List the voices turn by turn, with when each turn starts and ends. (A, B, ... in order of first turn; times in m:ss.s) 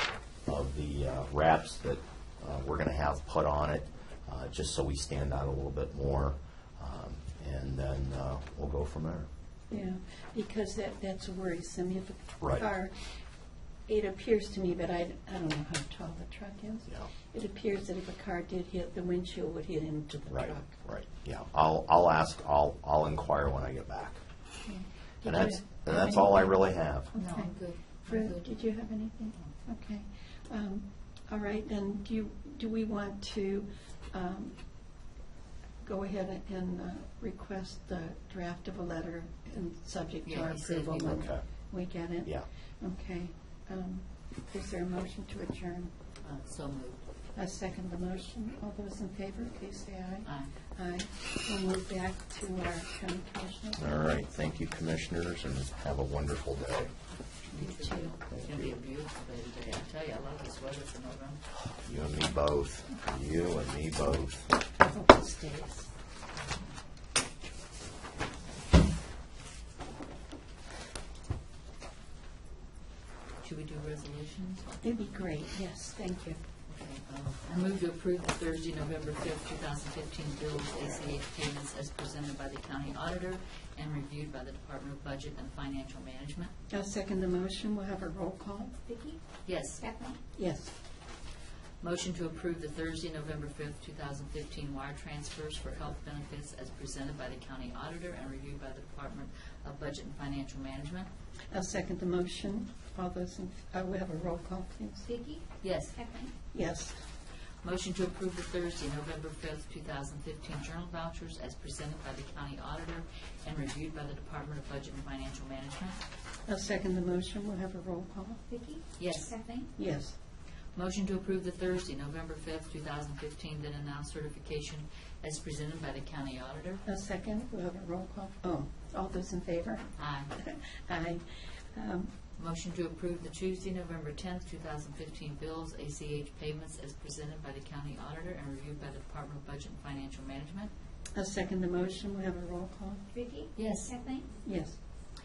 0:00.5-0:09.3 A
0:09.7-0:13.1 B
0:13.9-0:20.8 B
0:20.3-0:24.2 A
0:24.7-0:26.5 B
0:25.2-0:27.1 A
0:27.1-0:27.5 B
0:27.1-0:28.5 C
0:28.1-0:34.6 B
0:35.8-0:45.9 B
0:40.2-0:41.3 C
0:41.0-0:41.4 A
0:46.2-0:47.0 C
0:47.4-0:54.2 B
0:50.2-0:50.5 C
0:53.8-0:56.9 A
0:57.5-1:01.4 C
0:57.5-0:58.2 B
0:58.3-0:58.7 A
1:01.8-1:04.6 A
1:04.8-1:05.9 B
1:13.4-1:14.8 C
1:14.8-1:16.4 B
1:16.7-1:26.5 C
1:26.7-1:28.9 B
1:28.9-1:29.2 D
1:29.4-1:29.9 C
1:29.8-1:30.2 D
1:30.3-1:30.7 B
1:31.8-1:41.1 C
1:41.5-1:45.1 B
1:45.1-1:46.3 D
1:45.6-1:46.0 C
1:46.5-1:47.0 B
1:47.6-1:56.0 C
1:56.5-1:58.4 B
1:58.5-1:59.7 D
1:59.0-1:59.4 C
1:59.8-2:00.2 B
2:00.8-2:06.8 C
2:06.8-2:12.1 B
2:10.0-2:10.3 C
2:12.4-2:20.7 C
2:21.2-2:23.0 B
2:23.1-2:24.3 D
2:23.6-2:24.0 C
2:24.4-2:24.8 B